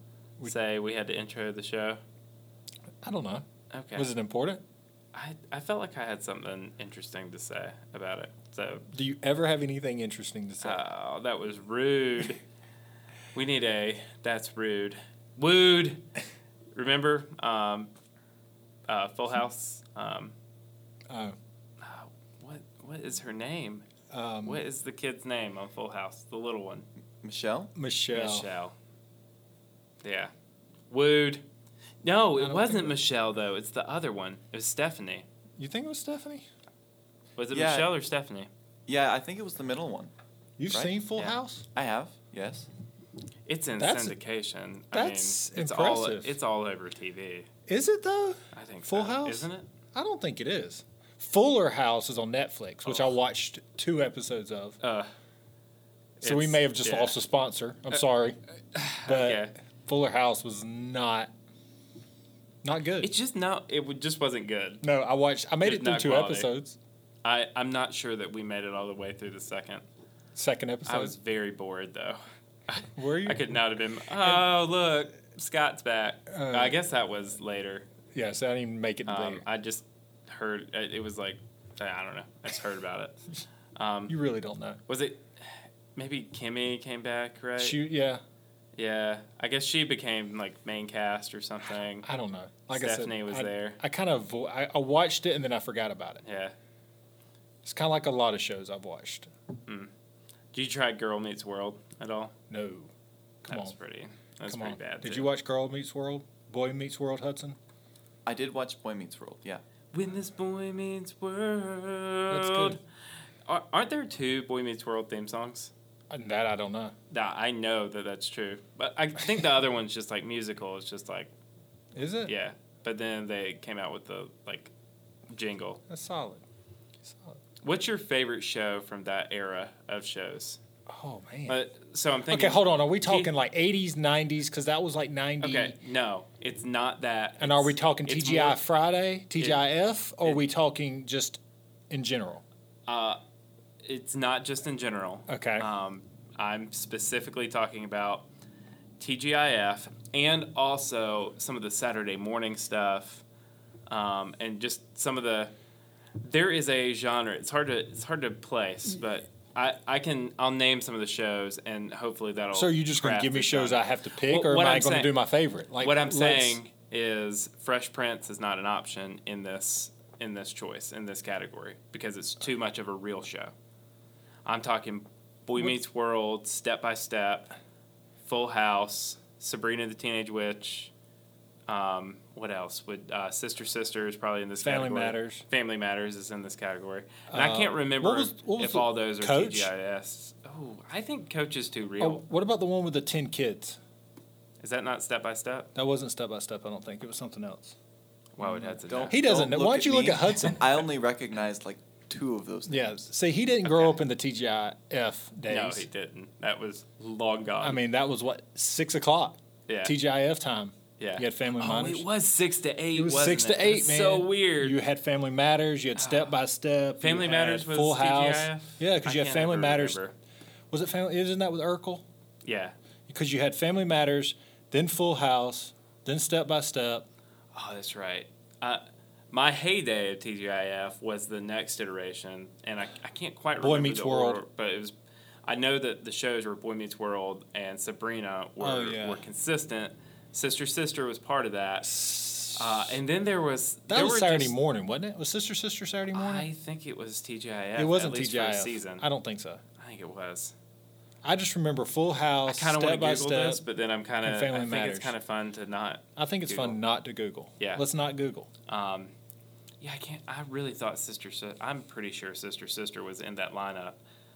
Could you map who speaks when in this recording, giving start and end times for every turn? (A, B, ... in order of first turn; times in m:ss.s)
0:00.4-0:02.0 A
0:03.0-0:04.6 B
0:03.7-0:04.1 A
0:05.1-0:08.9 A
0:08.9-0:10.8 B
0:10.6-0:12.4 A
0:13.3-0:16.0 A
0:16.7-0:17.9 A
0:18.9-0:20.3 A
0:21.1-0:21.4 B
0:21.8-0:23.8 A
0:24.1-0:24.6 B
0:24.4-0:26.9 A
0:27.2-0:27.7 C
0:27.8-0:28.5 B
0:28.1-0:28.7 A
0:30.0-0:30.3 A
0:30.9-0:31.4 A
0:32.0-0:35.3 A
0:32.4-0:33.0 B
0:35.6-0:36.5 B
0:37.4-0:38.5 A
0:37.5-0:37.9 C
0:38.9-0:40.1 C
0:40.6-0:41.6 B
0:40.7-0:42.7 C
0:43.5-0:47.5 A
0:43.8-0:44.2 B
0:44.9-0:46.4 B
0:47.7-0:54.8 B
0:48.5-0:49.7 A
0:52.8-0:53.1 A
0:54.8-0:55.1 A
0:56.2-0:58.4 B
0:56.2-0:57.2 A
0:58.7-0:59.6 A
0:59.0-1:01.3 B
1:02.6-1:03.1 B
1:03.0-1:04.8 A
1:04.8-1:06.8 B
1:05.6-1:06.5 A
1:07.2-1:09.8 A
1:10.4-1:11.1 B
1:10.9-1:17.9 A
1:13.0-1:13.6 B
1:16.3-1:16.8 B
1:18.1-1:19.4 B
1:19.1-1:23.2 A
1:23.8-1:24.1 A
1:24.1-1:24.8 B
1:24.9-1:27.8 A
1:27.6-1:28.2 B
1:28.8-1:32.1 A
1:32.0-1:36.2 B
1:32.7-1:33.8 A
1:36.2-1:36.6 A
1:37.6-1:39.3 B
1:39.7-1:39.9 A
1:40.5-1:42.3 A
1:42.5-1:42.9 B
1:43.4-1:43.8 B
1:43.5-1:45.3 A
1:44.5-1:47.6 B
1:48.3-1:49.6 C
1:49.9-1:52.8 A
1:52.3-1:52.8 B
1:53.5-1:55.7 A
1:56.1-1:57.0 B
1:57.1-2:01.3 A
2:02.0-2:02.3 B
2:02.3-2:04.7 A
2:05.3-2:05.8 A
2:05.9-2:06.4 B
2:07.0-2:07.4 B
2:07.6-2:10.6 A
2:10.9-2:11.6 B
2:11.5-2:13.3 A
2:12.3-2:15.8 B
2:15.4-2:18.6 A
2:17.4-2:22.4 B
2:22.9-2:23.2 A
2:23.8-2:28.3 A
2:25.3-2:25.7 B
2:29.0-2:33.2 A
2:33.9-2:35.5 A
2:36.2-2:45.2 A
2:42.5-2:46.6 B
2:45.8-2:53.5 A
2:54.5-2:57.5 A
2:58.2-3:00.9 A
3:01.7-3:12.2 A
3:04.6-3:05.4 B
3:07.3-3:09.7 B
3:12.0-3:13.8 B
3:14.6-3:15.7 A
3:15.8-3:17.8 B
3:18.4-3:19.2 A
3:18.4-3:20.7 B
3:18.9-3:23.0 C
3:22.7-3:25.9 B
3:23.6-3:24.0 A
3:25.5-3:27.8 A
3:27.6-3:32.1 B
3:29.7-3:29.9 A
3:31.0-3:34.8 A
3:32.9-3:40.0 B
3:36.0-3:36.3 A
3:37.0-3:40.2 A
3:40.7-3:42.0 B
3:42.4-3:42.8 A
3:43.1-3:47.1 B
3:47.5-3:55.0 A
3:53.6-3:54.4 B
3:55.5-4:01.9 A
3:58.6-3:59.2 B
4:01.8-4:03.0 B
4:02.6-4:04.6 A
4:03.9-4:06.5 B
4:06.1-4:09.1 A
4:07.8-4:09.6 B
4:09.8-4:10.6 A
4:11.2-4:13.6 B
4:12.5-4:16.8 A
4:14.2-4:15.1 B
4:16.2-4:18.5 B
4:18.7-4:19.1 A
4:19.8-4:24.0 A